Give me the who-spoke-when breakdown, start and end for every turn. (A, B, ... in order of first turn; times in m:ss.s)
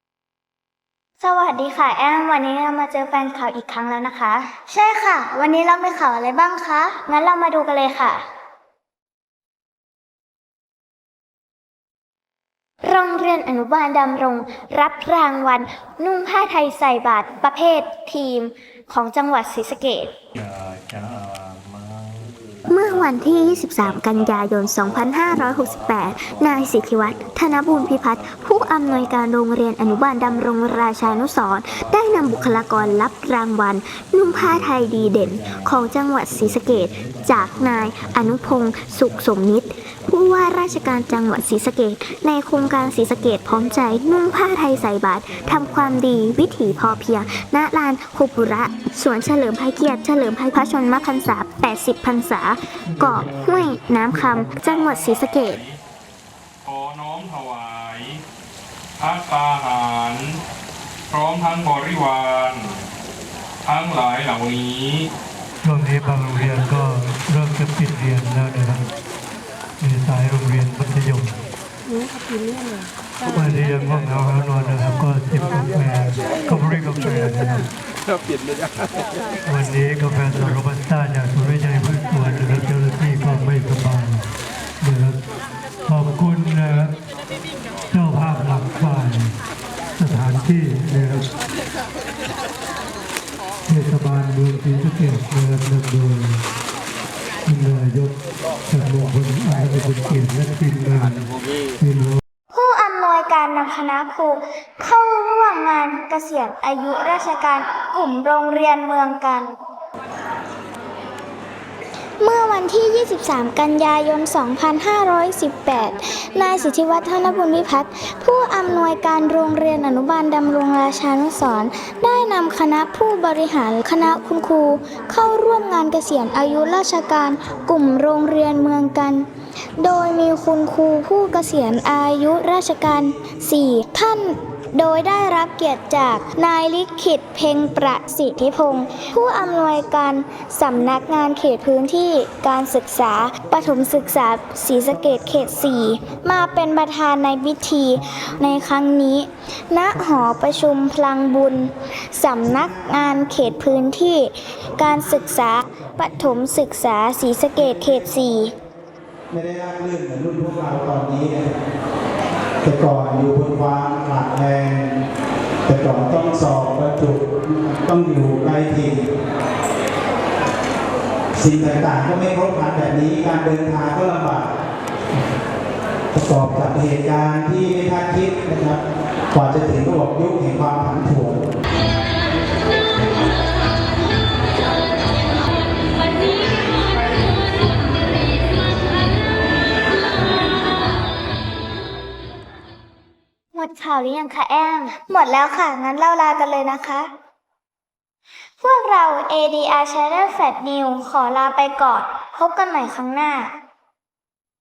0:01.2-0:04.5 A
0:01.6-0:02.0 B
0:02.9-0:08.2 B
0:12.9-0:17.4 A
0:12.9-0:18.1 B
0:18.0-0:19.7 A
0:19.0-0:20.1 B
0:22.7-0:49.9 A
0:23.1-0:24.6 B
0:25.3-0:25.8 B
0:26.5-0:27.3 B
0:28.6-0:29.0 B
0:40.7-0:41.3 B
0:45.0-0:49.2 B
0:49.7-0:55.4 B
0:51.0-0:52.3 A
0:53.0-0:53.3 C
0:53.0-0:54.7 A
0:54.2-0:54.5 C
0:54.5-0:55.8 D
0:56.6-0:58.2 D
0:59.0-1:00.4 D
1:01.1-1:02.8 D
1:03.6-1:05.1 D
1:05.6-1:08.8 C
1:09.8-1:11.4 C
1:13.3-1:17.7 C
1:19.4-1:24.2 C
1:24.8-1:25.2 C
1:25.8-1:26.9 C
1:27.9-1:29.4 C
1:30.0-1:31.2 C
1:33.6-1:36.4 C
1:37.4-1:38.1 C
1:38.7-1:41.3 C
1:41.8-1:42.2 C
1:42.5-1:49.6 B
1:52.2-2:09.3 B
2:09.8-2:38.5 B
2:39.3-2:41.5 E
2:42.6-2:45.0 E
2:45.6-2:49.1 E
2:51.3-2:54.5 E
2:56.1-2:58.8 E
2:59.3-3:01.4 E
3:13.5-3:14.9 A
3:14.9-3:17.1 B
3:18.6-3:23.5 B